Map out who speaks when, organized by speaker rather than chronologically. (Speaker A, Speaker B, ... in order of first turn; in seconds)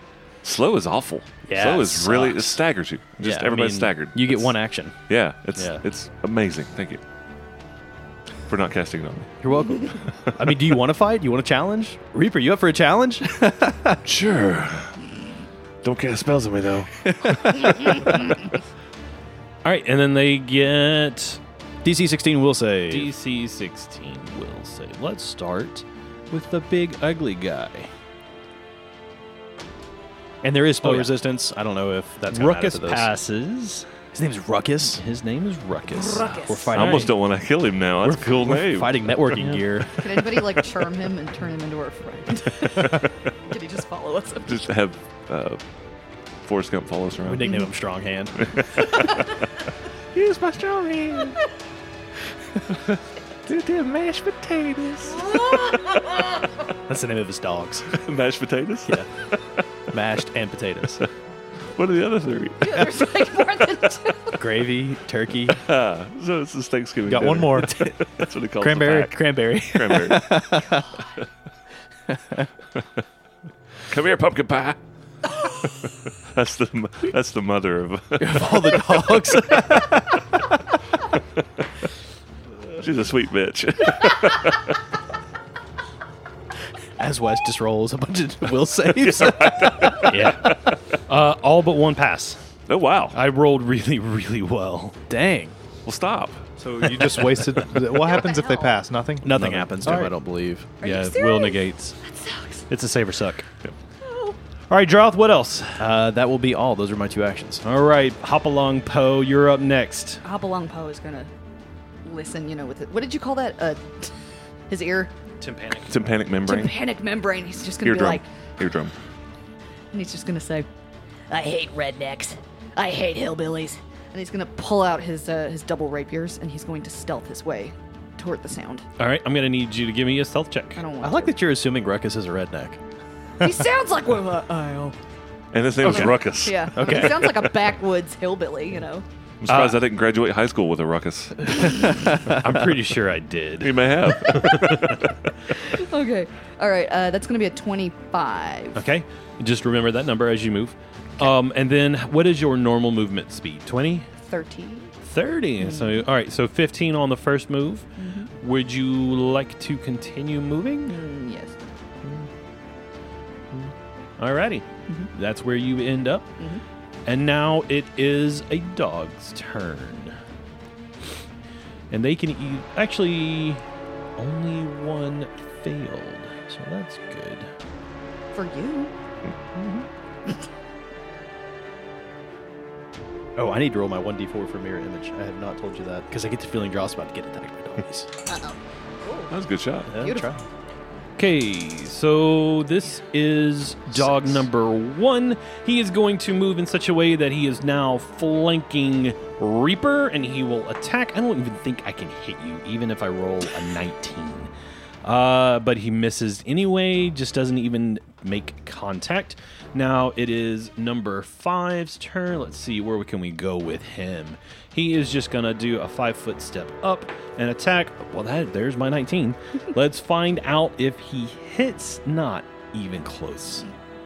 Speaker A: 0.4-4.5, 5.1-7.0, 8.5-9.3, 14.0-15.0, 15.8-18.5, 36.7-39.3, 44.4-45.6, 46.4-47.6, 48.4-49.4, 50.1-51.4, 52.6-56.0, 57.9-59.6, 61.8-63.0, 65.5-70.8, 73.9-74.8, 75.3-79.9, 82.7-84.8, 89.1-90.8, 92.7-93.2, 95.8-96.4, 115.9-116.7, 117.8-118.9, 135.5-137.5, 139.4-141.9, 143.6-145.3, 189.3-189.9
Speaker B: 1.4-2.6, 3.2-5.0, 5.5-5.8, 9.4-14.0, 17.2-17.5, 21.8-23.1, 30.4-33.1, 34.1-35.0, 36.3-37.1, 38.0-40.0, 47.2-48.5, 56.9-58.0, 59.9-61.1, 64.4-65.6, 67.1-67.9, 69.0-70.8, 72.1-72.5, 78.2-80.8, 87.0-90.1, 95.1-95.5, 99.2-100.7, 105.8-107.6, 131.0-132.8, 136.8-137.3, 183.3-188.1, 189.9-190.4
Speaker C: 19.6-21.4, 22.9-27.9, 30.8-31.1, 32.3-33.9, 34.9-37.1, 90.0-92.4, 93.1-95.0, 100.8-102.0, 102.7-103.5, 104.7-105.8, 107.6-110.2, 115.4-115.9, 129.0-130.8, 139.5-139.8, 142.2-144.5, 148.7-154.1, 155.0-157.8, 158.4-161.0, 163.5-166.3, 167.1-170.2, 171.9-173.6, 174.2-177.5, 191.2-204.5, 205.0-223.7
Speaker D: 36.1-36.6, 39.9-44.6, 47.4-47.7, 55.1-56.3, 62.6-64.4, 97.9-98.8, 100.8-102.7, 104.0-104.4, 110.2-111.3, 112.0-114.1, 114.7-115.1, 116.4-118.2, 119.9-120.7, 124.1-128.8, 130.8-131.4, 133.4-134.9, 135.8-139.0, 145.6-148.8, 154.2-154.9, 155.6-156.0, 158.0-158.3, 160.8-161.5, 178.3-178.9, 179.6-180.3
Speaker E: 67.0-67.9, 68.6-69.2, 96.6-100.1
Speaker F: 121.3-123.8